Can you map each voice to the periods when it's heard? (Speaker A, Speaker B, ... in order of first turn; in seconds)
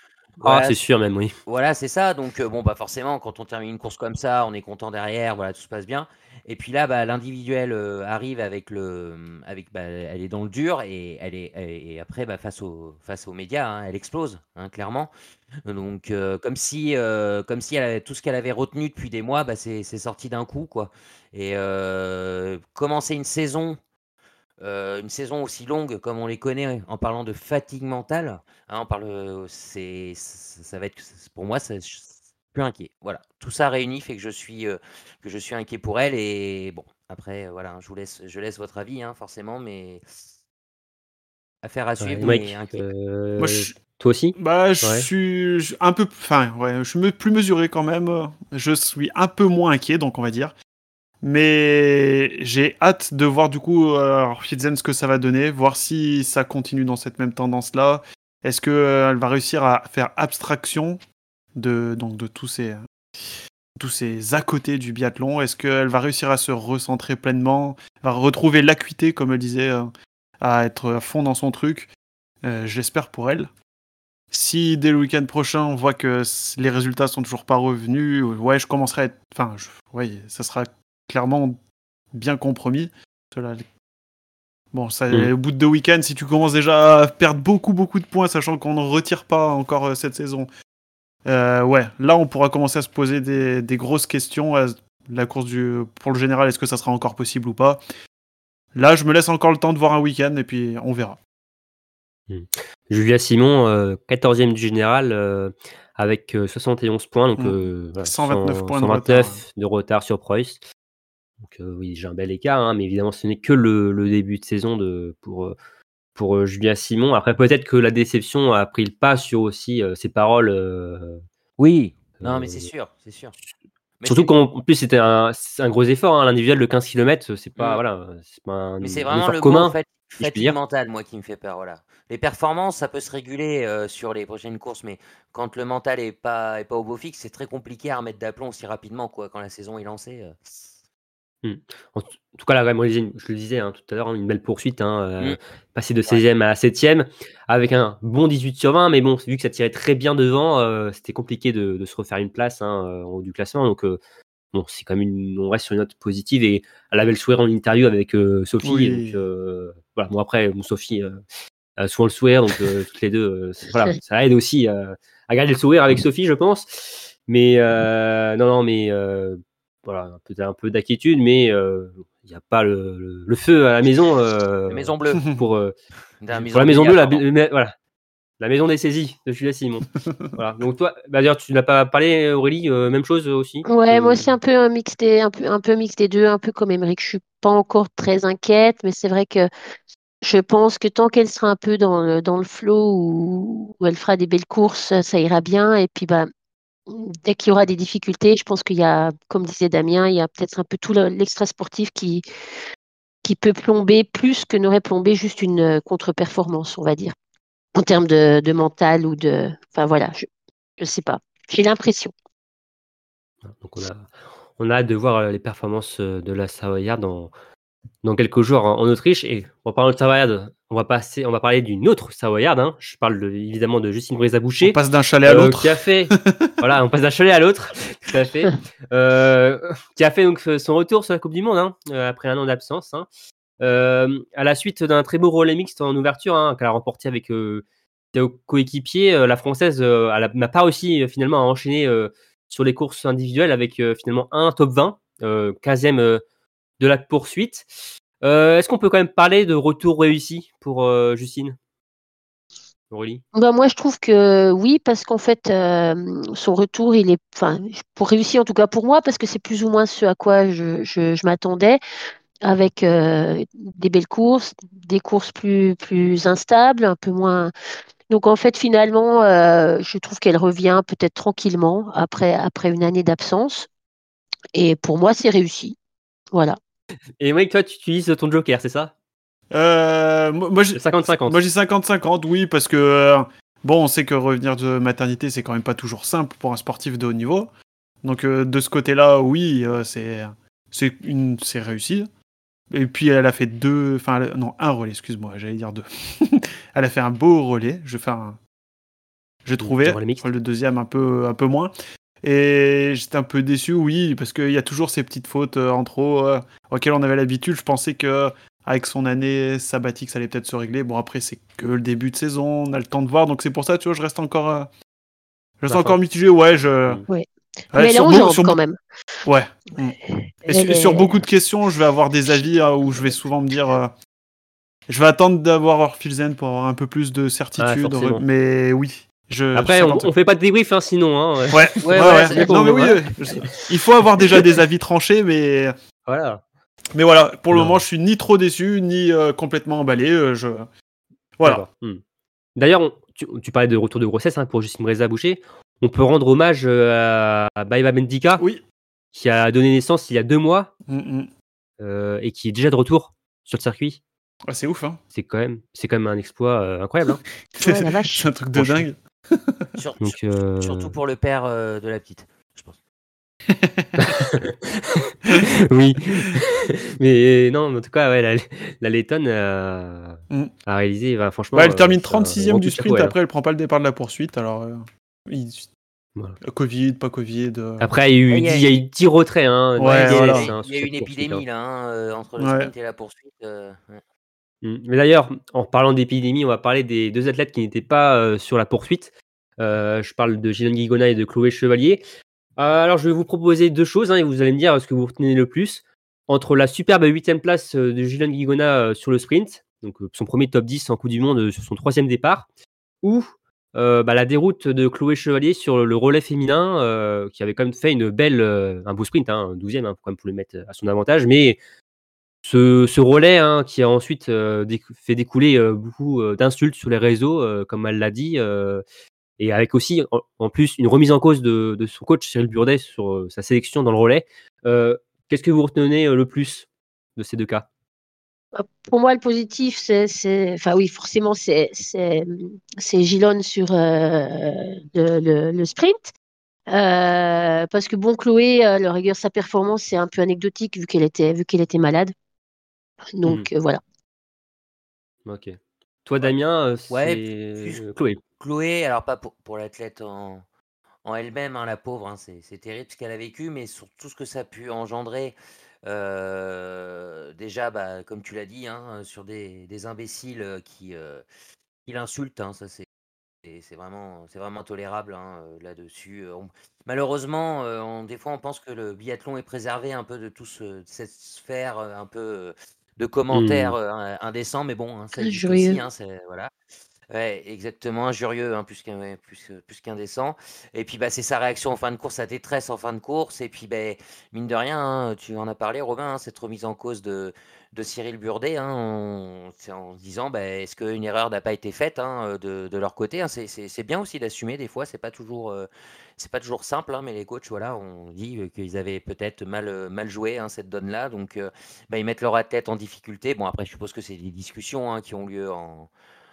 Speaker A: 0.4-0.8, 1.5-15.1, 15.7-23.8, 24.6-40.0, 41.6-42.9, 121.6-123.3, 124.0-124.3, 127.6-127.8, 128.8-140.6, 174.7-175.2, 176.2-177.2, 331.8-332.5, 359.8-362.8, 378.3-378.8, 379.9-384.0, 446.9-447.9, 448.4-450.4, 451.1-461.2, 461.9-462.9, 463.4-476.5, 477.1-505.9
Speaker B: 0.4-1.3, 42.0-45.1, 102.3-110.6, 111.4-115.5, 116.2-121.2, 122.2-122.7, 124.1-130.6, 141.4-154.0, 154.5-161.2, 161.8-175.7, 176.3-177.7, 178.4-184.3, 213.5-217.3, 218.0-233.1, 233.6-246.2, 246.8-247.7, 248.2-251.6, 252.9-253.2, 277.2-278.9, 280.8-281.4, 299.6-300.3, 315.7-316.0, 327.6-328.2, 329.6-333.6, 334.2-334.5, 336.1-336.4, 337.5-337.8, 341.4-342.0, 342.6-348.4, 349.1-350.7, 351.8-354.0, 355.1-357.2, 358.6-358.9, 360.0-360.9, 364.0-373.1, 377.8-381.4, 384.6-392.0, 392.6-402.5, 403.0-411.6, 412.4-418.8, 419.4-427.7, 445.3-448.2, 473.3-473.8
Speaker C: 43.4-43.7, 44.4-50.5, 51.2-61.0, 61.6-69.9, 70.4-71.9, 72.4-73.5, 74.3-81.6, 82.1-83.7, 84.7-90.5, 91.3-97.8, 98.8-101.2, 107.4-109.4, 158.6-159.2, 180.1-180.4, 224.6-226.5, 279.5-287.5, 288.0-292.1, 292.7-298.4, 299.4-314.7, 315.6-317.0, 317.7-318.6, 319.3-323.9, 324.9-330.1, 331.5-335.7, 336.9-340.7, 341.4-341.6, 348.4-348.6, 350.9-351.3, 354.5-355.0, 357.6-359.7, 363.5-364.1, 371.5-375.7, 376.4-377.9, 379.8-380.5, 382.4-382.7
Speaker D: 183.7-189.5, 190.2-196.3, 196.9-202.2, 203.2-207.2, 207.8-210.3, 210.8-212.1, 253.3-261.8, 262.4-267.5, 268.1-273.7, 274.5-275.8, 276.3-276.6, 317.1-318.8, 320.5-321.2, 357.6-358.3, 428.6-436.1, 436.7-442.1, 443.2-443.8, 475.2-475.8